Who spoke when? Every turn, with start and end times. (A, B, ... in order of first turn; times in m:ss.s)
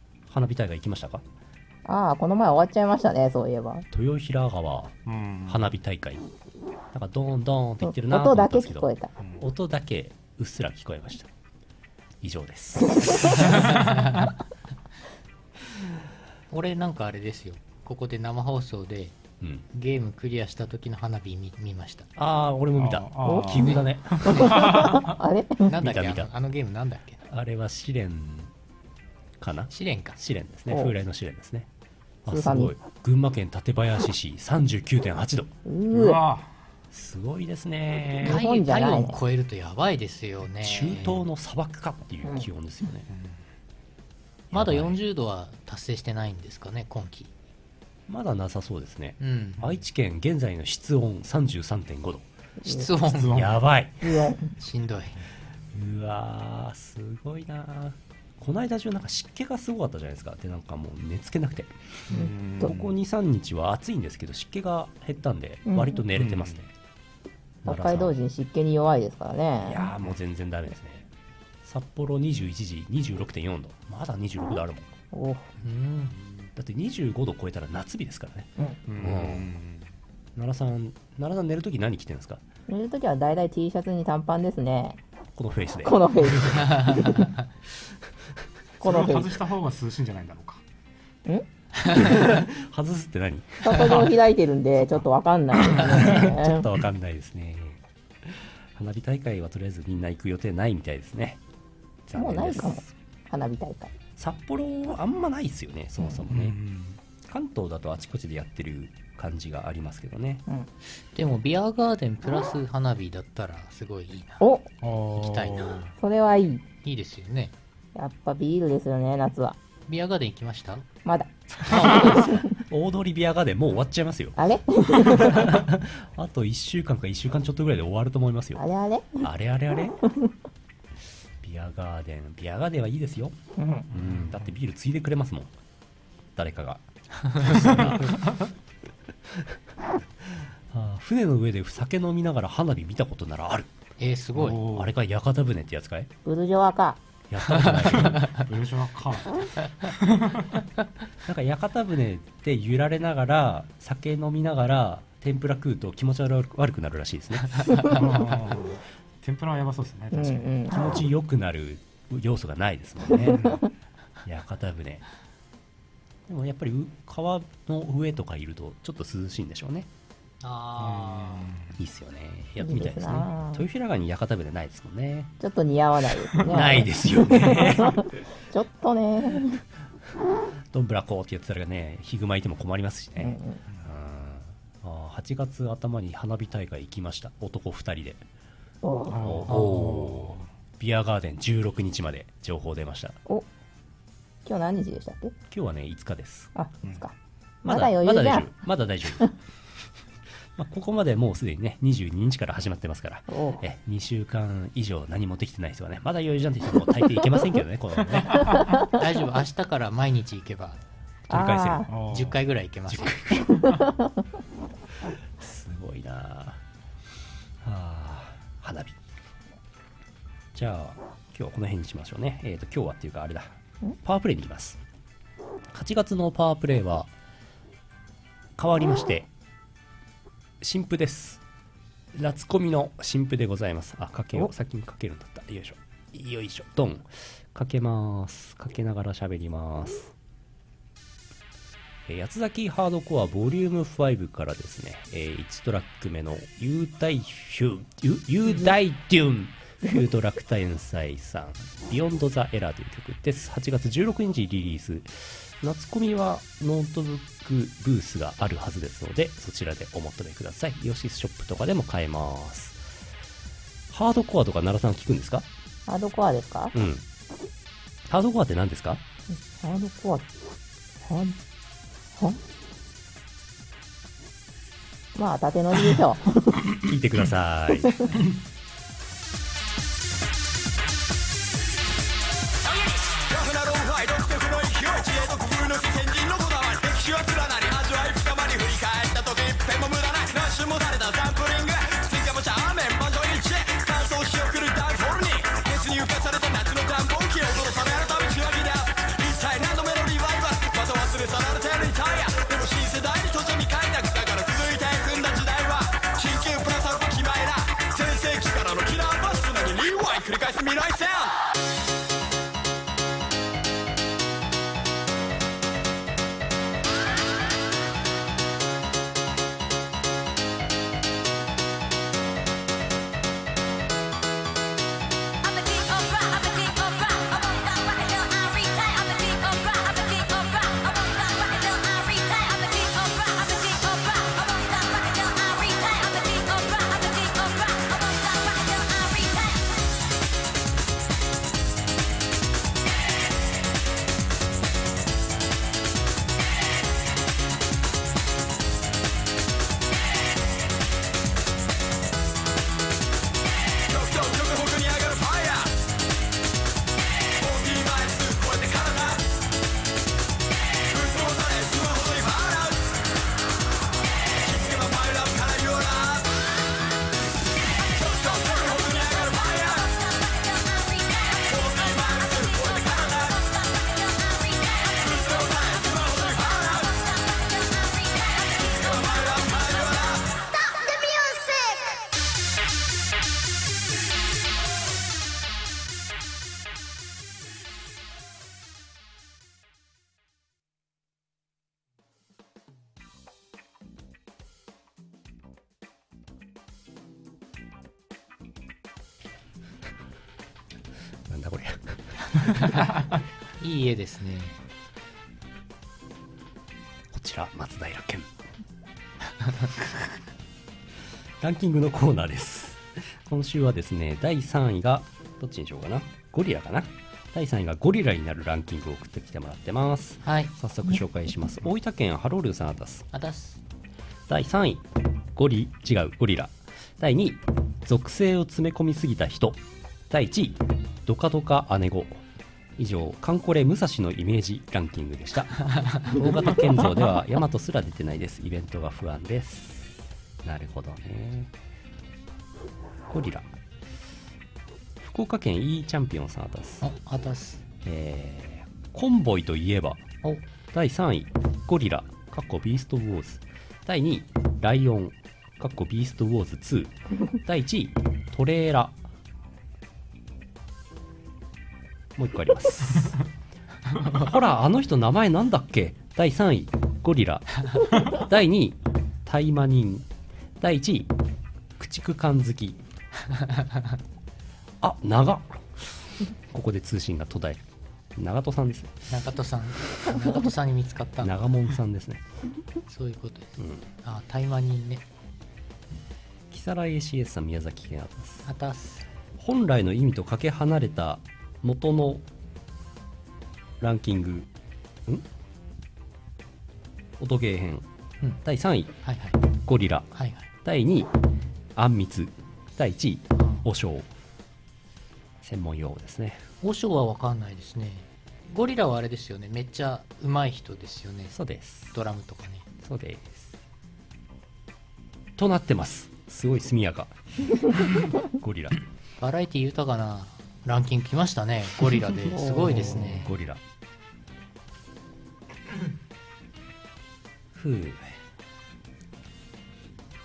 0:00.3-0:01.2 A
0:01.8-0:03.8 B
0:03.9-0:06.2 A
0:05.0-0:05.6 C
0:06.9-0:11.3 A
0:07.8-0:09.1 B
0:12.2-0:13.6 A
0:12.9-0:13.4 B
0:13.8-0:14.2 D
0:16.5-0:19.2 D
0:19.7-0:22.1 D
0:22.2-0:24.8 A
0:22.8-0:25.1 C
0:23.2-0:25.7 B
0:25.7-0:27.2 D
0:25.7-0:26.3 A
0:27.2-0:28.5 A
0:29.4-0:31.7 A
0:29.7-0:30.2 D
0:32.2-0:35.5 A
0:32.2-0:32.7 B
0:35.6-0:36.2 B
0:35.9-0:36.5 C
0:36.9-0:38.4 A
0:38.2-0:41.2 D
0:38.2-0:39.2 B
0:40.6-0:43.1 A
0:44.5-0:45.0 A
0:44.5-0:47.3 D
0:48.1-0:52.3 A
0:49.2-0:49.7 D
0:52.6-0:52.9 B
0:52.6-0:53.4 D
0:53.2-0:53.5 C
0:53.3-0:54.1 A
0:54.0-0:54.5 B
0:54.6-0:55.2 D
0:55.7-1:01.9 A
1:02.1-1:02.9 C
1:02.6-1:06.7 A
1:05.7-1:06.0 B
1:06.2-1:06.6 C
1:07.6-1:08.1 A
1:07.6-1:09.9 B
1:09.6-1:11.1 A
1:11.6-1:14.9 A
1:15.1-1:15.5 B
1:15.6-1:16.1 D
1:16.6-1:19.5 A
1:18.9-1:19.8 C
1:20.4-1:22.4 A
1:22.7-1:25.0 B
1:25.4-1:26.8 A
1:25.8-1:27.3 B
1:26.9-1:27.1 D
1:28.8-1:29.4 B
1:28.8-1:30.6 C
1:31.2-1:32.1 B
1:31.9-1:33.9 A
1:33.6-1:36.7 B
1:35.6-1:41.4 A
1:42.1-1:42.9 A
1:42.1-1:43.9 B
1:44.2-1:46.6 A
1:46.3-1:46.9 C
1:47.2-1:50.4 A
1:51.1-1:54.4 D
1:54.4-1:54.7 B
1:54.8-1:55.9 C
1:55.1-1:55.8 D
1:56.0-1:56.6 B
1:56.8-1:57.5 D
1:57.9-1:59.6 B
1:59.9-2:00.8 D
2:01.0-2:02.5 B
2:01.7-2:04.4 A
2:04.4-2:05.5 B
2:04.9-2:08.6 A
2:08.6-2:09.3 B
2:09.2-2:10.0 A
2:11.4-2:13.4 A
2:13.6-2:13.9 B
2:13.9-2:15.5 A
2:13.9-2:14.4 C
2:16.4-2:16.8 A
2:17.3-2:17.7 D
2:17.3-2:18.2 A
2:17.5-2:17.9 C
2:19.3-2:19.6 A
2:20.2-2:23.7 A
2:24.0-2:24.6 D
2:24.4-2:24.9 C
2:24.6-2:26.1 A
2:26.2-2:27.0 B
2:27.3-2:28.3 A
2:27.5-2:28.4 D
2:28.3-2:30.5 C
2:31.2-2:37.8 A
2:37.8-2:40.6 C
2:40.1-2:40.9 B
2:40.7-2:43.6 A
2:43.3-2:43.6 C
2:44.2-2:45.0 A
2:46.3-2:49.9 A
2:50.4-2:51.6 D
2:50.8-2:51.7 C
2:51.8-2:55.3 A
2:52.6-2:53.6 B
2:55.4-2:59.6 B
2:56.4-2:58.1 A
3:00.7-3:08.2 A
3:03.2-3:03.6 B
3:08.8-3:09.2 B
3:09.1-3:10.4 C
3:09.2-3:13.2 A
3:14.4-3:15.3 B
3:15.5-3:16.5 A
3:16.5-3:18.5 B
3:17.6-3:19.3 A
3:20.6-3:28.6 A
3:23.3-3:23.6 B
3:28.2-3:28.6 C
3:28.9-3:30.8 D
3:31.3-3:31.9 A
3:31.3-3:31.9 B
3:31.9-3:32.4 C
3:32.0-3:33.3 D
3:32.9-3:33.7 A
3:33.6-3:33.9 B
3:35.4-3:36.6 A
3:37.6-3:39.0 A
3:40.5-3:44.8 A
3:45.7-3:47.1 A
3:48.6-3:49.3 A
3:50.6-3:51.4 A
3:52.1-4:00.1 A
4:02.1-4:22.8 A
4:23.9-4:25.5 A
4:25.9-4:26.7 B
4:26.7-4:27.0 A
4:28.1-4:29.0 A
4:29.4-4:30.2 B
4:31.0-4:31.4 B
4:35.1-4:36.8 B
4:36.8-4:38.1 A
4:37.8-4:38.2 B
4:42.9-5:11.4 E
5:53.9-5:55.8 E
5:57.4-5:59.3 E
6:00.9-6:03.0 E
6:04.4-6:06.4 E
6:07.8-6:10.0 E
6:11.3-6:13.5 E
6:14.9-6:17.0 E
6:18.5-6:20.4 E
6:41.3-6:42.6 A
6:43.6-6:44.6 D
6:47.1-6:48.3 A
6:51.4-7:03.1 A
7:00.2-7:00.5 D
7:03.1-7:03.6 D
7:04.3-7:12.2 A
7:12.8-7:21.5 A
7:23.1-7:23.5 A
7:25.0-7:26.8 A
7:26.8-7:27.6 D
7:27.8-7:30.0 A
7:30.7-7:39.0 A
7:42.2-7:43.2 A
7:44.0-7:50.1 A
7:50.6-7:51.1 A
7:51.8-7:52.8 A
7:53.3-7:53.8 D
7:54.8-7:57.6 A
7:58.2-7:59.1 A
7:59.1-8:01.4 D
8:01.2-8:02.2 A
8:02.9-8:05.0 D
8:03.6-8:03.8 A
8:06.5-8:08.5 A
8:08.4-8:09.1 D
8:09.4-8:12.2 A
8:13.8-8:14.5 A
8:17.2-8:17.9 A
8:18.4-8:19.0 A
8:19.0-8:19.4 D
8:19.6-8:21.1 A
8:20.1-8:20.5 D
8:21.7-8:24.1 A
8:23.4-8:23.6 D
8:25.4-8:26.4 A
8:26.6-8:31.4 D
8:31.3-8:31.9 A
8:31.9-8:32.7 D
8:32.8-8:33.5 A
8:35.4-8:38.8 A
8:39.2-8:43.3 D
8:42.5-8:43.6 A
8:47.5-8:48.2 A